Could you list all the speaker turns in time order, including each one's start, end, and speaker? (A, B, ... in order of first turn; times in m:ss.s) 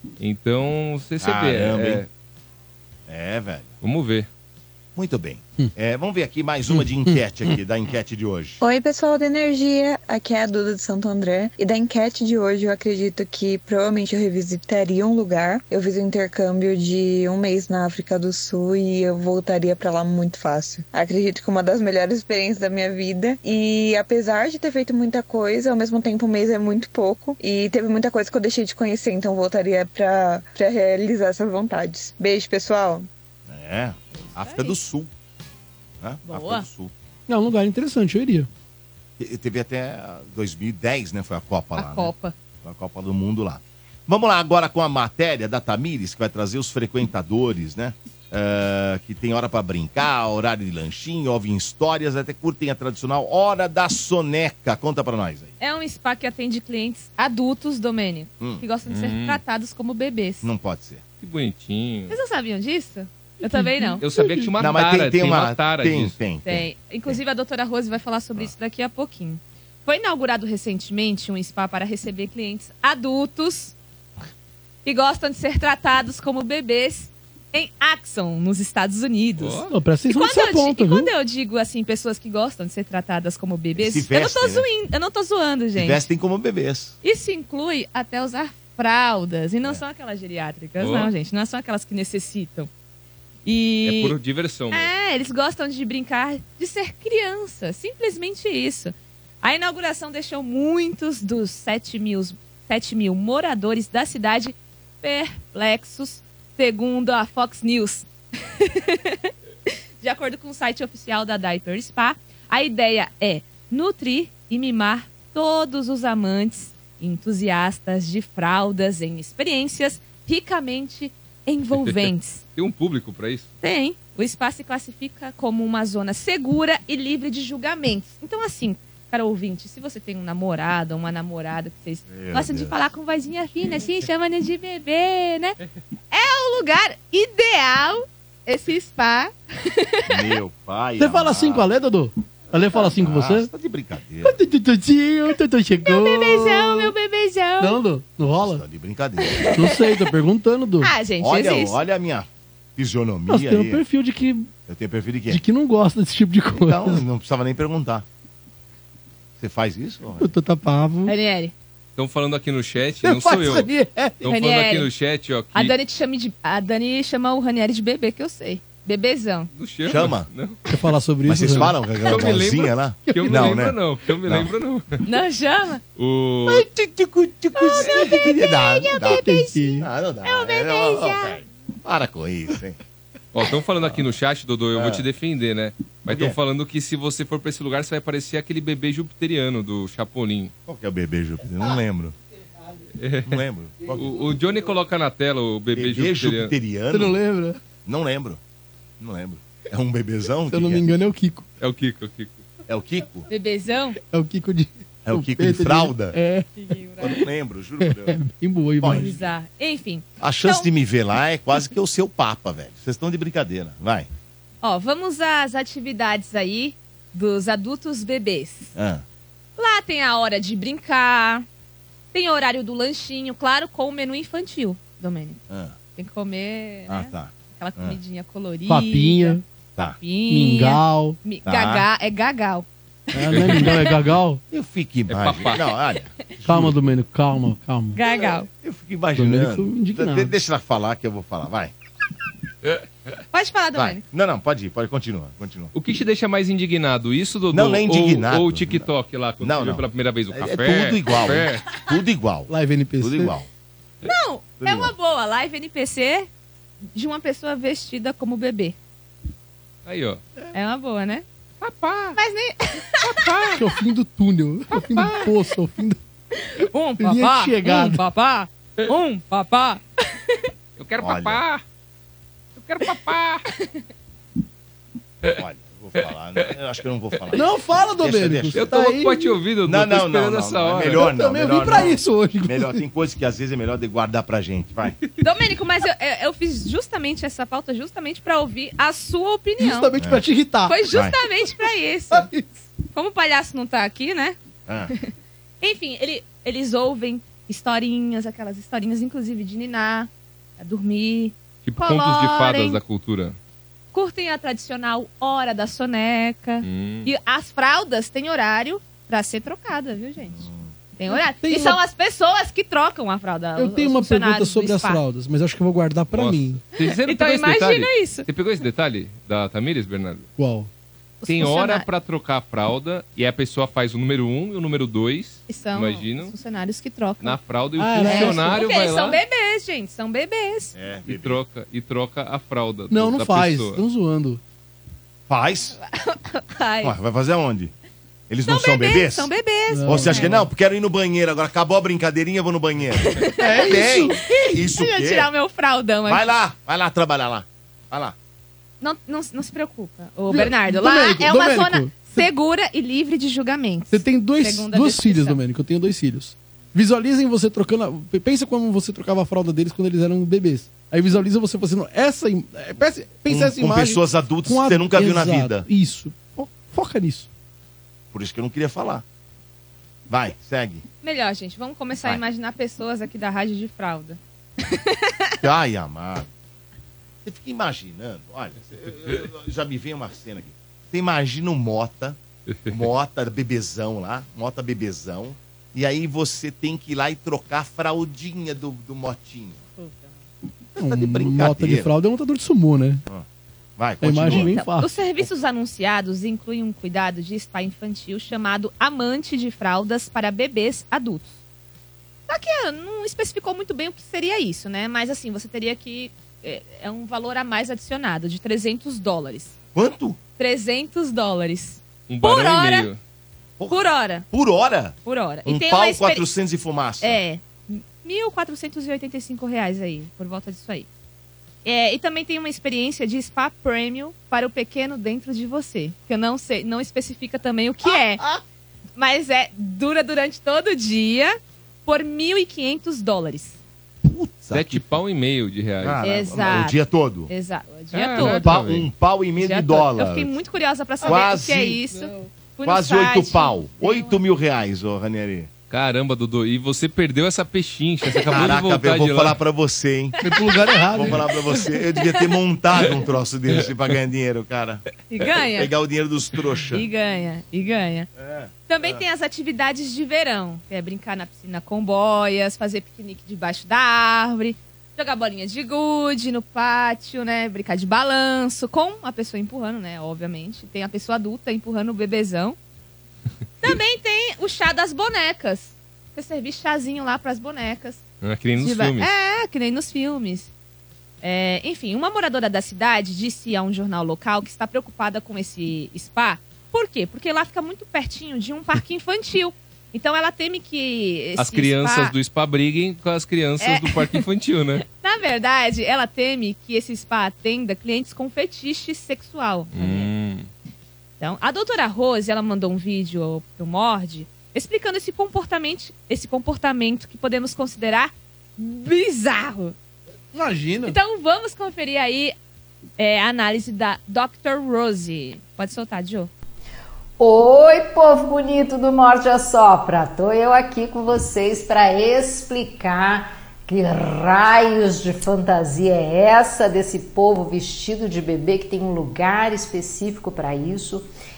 0:00.2-0:02.1 A
0:01.2-0:02.0 B
0:03.1-0:03.7 B
0:03.8-0:04.3 A
0:05.0-0:08.6 B
0:06.7-0:07.6 C
0:08.6-0:33.1 D
0:33.5-0:35.1 B
0:34.1-0:34.8 E
0:36.0-0:36.9 B
0:36.2-0:36.7 E
0:37.3-0:38.5 C
0:39.2-0:42.1 B
0:41.8-0:42.3 E
0:42.6-0:55.5 B
0:55.6-1:00.5 E
0:58.9-0:59.4 A
1:00.4-1:01.0 B
1:01.2-1:02.2 A
1:02.1-1:04.0 E
1:03.4-1:04.5 C
1:04.0-1:06.1 A
1:04.6-1:07.1 B
1:06.4-1:13.7 E
1:14.8-1:26.1 E
1:19.4-1:19.7 A
1:19.7-1:21.1 C
1:23.8-1:24.6 B
1:25.8-1:26.9 B
1:27.0-1:32.7 E
1:30.8-1:31.1 A
1:33.4-1:34.1 E
1:33.8-1:34.9 A
1:34.7-1:49.3 E
1:50.0-2:02.4 E
2:01.8-2:03.5 A
2:03.6-2:15.6 E
2:12.1-2:12.8 B
2:16.1-2:20.3 E
2:20.1-2:21.7 B
2:21.0-2:23.5 C
2:22.8-2:24.4 B
2:24.2-2:26.9 C
2:25.8-2:27.8 E
2:27.6-2:28.6 C
2:28.4-2:29.6 B
2:29.3-2:30.1 E
2:29.4-2:30.9 C
2:30.8-2:31.8 E
2:31.2-2:33.8 B
2:33.3-2:34.5 C
2:34.7-2:35.4 B
2:35.3-2:37.0 C
2:36.6-2:38.0 B
2:39.4-2:40.3 B
2:40.2-2:41.1 C
2:41.0-2:41.5 E
2:42.0-2:43.7 A
2:43.0-2:44.2 C
2:44.2-2:45.7 A
2:44.2-2:44.9 E
2:45.5-2:49.5 E
2:49.6-2:50.6 A
2:49.9-2:50.3 B
2:50.7-2:51.8 C
2:51.2-2:54.5 B
2:51.5-2:55.0 A
2:53.0-2:53.6 C
2:55.0-2:55.8 E
2:56.0-2:56.6 A
2:56.5-2:59.2 B
2:57.6-3:01.4 E
2:59.0-2:59.9 C
2:59.8-3:02.8 B
3:03.3-3:10.5 A
3:04.7-3:05.0 B
3:06.1-3:06.4 B
3:10.7-3:12.1 B
3:13.0-3:16.5 A
3:13.2-3:14.2 B
3:15.7-3:17.2 B
3:16.9-3:17.6 C
3:17.8-3:18.4 B
3:19.0-3:20.8 B
3:20.5-3:21.5 C
3:21.6-3:22.4 A
3:22.7-3:23.3 B
3:23.3-3:24.0 E
3:24.1-3:27.3 C
3:25.0-3:26.2 B
3:26.6-3:27.1 E
3:27.0-3:28.2 B
3:27.8-3:29.1 C
3:28.8-3:29.2 B
3:28.9-3:30.7 E
3:30.2-3:34.1 B
3:34.6-3:38.7 E
3:38.7-3:39.0 B
3:39.6-3:41.4 E
3:42.1-3:45.4 E
3:45.5-3:45.8 B
3:46.0-3:52.7 E
3:46.9-3:48.0 B
3:48.7-3:49.4 C
3:50.3-3:51.2 C
3:51.4-3:51.8 B
3:53.1-3:54.4 C
3:53.3-3:53.7 A
3:53.4-3:53.9 E
3:54.5-3:56.8 B
3:55.1-3:55.7 A
3:56.4-3:58.0 C
3:57.9-3:58.5 E
3:58.0-4:01.7 B
3:59.1-4:00.3 C
4:03.3-4:04.0 E
4:03.7-4:05.7 B
4:05.7-4:11.8 A
4:07.5-4:08.8 B
4:09.4-4:13.5 B
4:12.5-4:13.3 C
4:14.0-4:16.3 E
4:14.6-4:14.9 B
4:16.9-4:18.7 E
4:19.8-4:20.2 A
4:20.5-4:21.2 E
4:21.6-4:22.2 A
4:22.1-4:23.4 E
4:23.0-4:23.6 A
4:23.5-4:26.0 C
4:24.9-4:25.2 A
4:26.4-4:30.4 E
4:27.0-4:28.0 C
4:30.8-4:31.6 A
4:31.0-4:31.4 B
4:32.6-4:33.4 A
4:35.3-4:37.4 B
4:36.0-4:36.5 A
4:37.3-4:39.4 C
4:38.0-4:38.7 B
4:38.5-4:41.1 A
4:39.6-4:45.0 B
4:40.9-4:42.8 C
4:45.2-4:49.9 E
4:49.6-4:50.8 C
4:50.6-4:52.3 E
4:50.9-4:51.2 B
4:52.1-4:52.5 C
4:52.9-4:54.4 E
4:54.7-4:54.9 B
4:54.9-5:02.8 E
5:01.6-5:03.4 A
5:03.9-5:10.4 E
5:06.6-5:07.1 A
5:10.4-5:10.7 B
5:11.0-5:15.0 E
5:11.1-5:11.8 C
5:13.6-5:16.6 C
5:16.1-5:20.3 A
5:16.8-5:18.3 E
5:20.4-5:20.7 C
5:21.2-5:21.8 E
5:21.3-5:26.3 A
5:25.5-5:27.4 E
5:27.2-5:29.2 A
5:27.8-5:28.6 C
5:28.0-5:30.7 E
5:30.7-5:31.4 B
5:31.0-5:33.8 A
5:32.9-5:34.4 C
5:35.3-5:35.8 B
5:35.8-5:36.9 E
5:36.8-5:37.7 B
5:38.3-5:39.3 B
5:38.5-5:40.4 E
5:39.7-5:40.5 C
5:39.8-5:45.3 B
5:43.2-5:46.3 E
5:43.3-5:44.4 C
5:46.0-5:48.1 B
5:48.8-5:55.4 E
5:50.3-5:52.3 C
5:53.9-6:07.3 C
6:03.3-6:05.6 B
6:08.1-6:09.0 B
6:10.1-6:10.8 B
6:11.0-6:15.4 E
6:15.4-6:16.3 B
6:17.2-6:22.2 B
6:22.7-6:29.6 B
6:29.8-6:30.1 E
6:30.8-6:31.9 B
6:30.8-6:33.0 C
6:33.8-6:34.5 B
6:34.0-6:35.0 C
6:34.3-6:41.3 E
6:42.3-6:49.5 E
6:49.7-6:50.2 B
6:50.4-6:52.9 E
6:52.1-6:53.0 A
6:53.6-6:57.2 B
6:53.7-6:54.3 E
6:55.0-6:56.2 E
6:57.0-7:00.9 E
7:01.6-7:08.2 E
7:07.9-7:08.4 B
7:09.0-7:13.6 E
7:14.0-7:14.8 B
7:14.5-7:16.0 A
7:15.8-7:17.3 B
7:16.0-7:18.5 E
7:17.9-7:18.9 A
7:18.2-7:20.3 B
7:19.4-7:24.2 E
7:21.0-7:21.8 B
7:22.6-7:25.5 B
7:25.7-7:29.4 A
7:28.2-7:30.2 B
7:30.2-7:31.2 C
7:30.3-7:30.8 E
7:30.9-7:34.8 B
7:35.1-7:35.7 E
7:35.5-7:36.9 B
7:36.7-7:38.1 E
7:38.2-7:39.0 B
7:38.7-7:52.6 E
7:53.6-7:58.0 E
7:58.2-7:59.1 A
7:58.6-8:00.5 E
8:01.2-8:12.1 E
8:11.4-8:14.8 A
8:13.6-8:14.2 E
8:14.9-8:20.1 E
8:19.7-8:20.5 A
8:21.2-8:29.8 E
8:30.3-8:31.0 C
8:30.8-8:32.3 E
8:33.0-8:36.3 E
8:37.2-8:51.1 F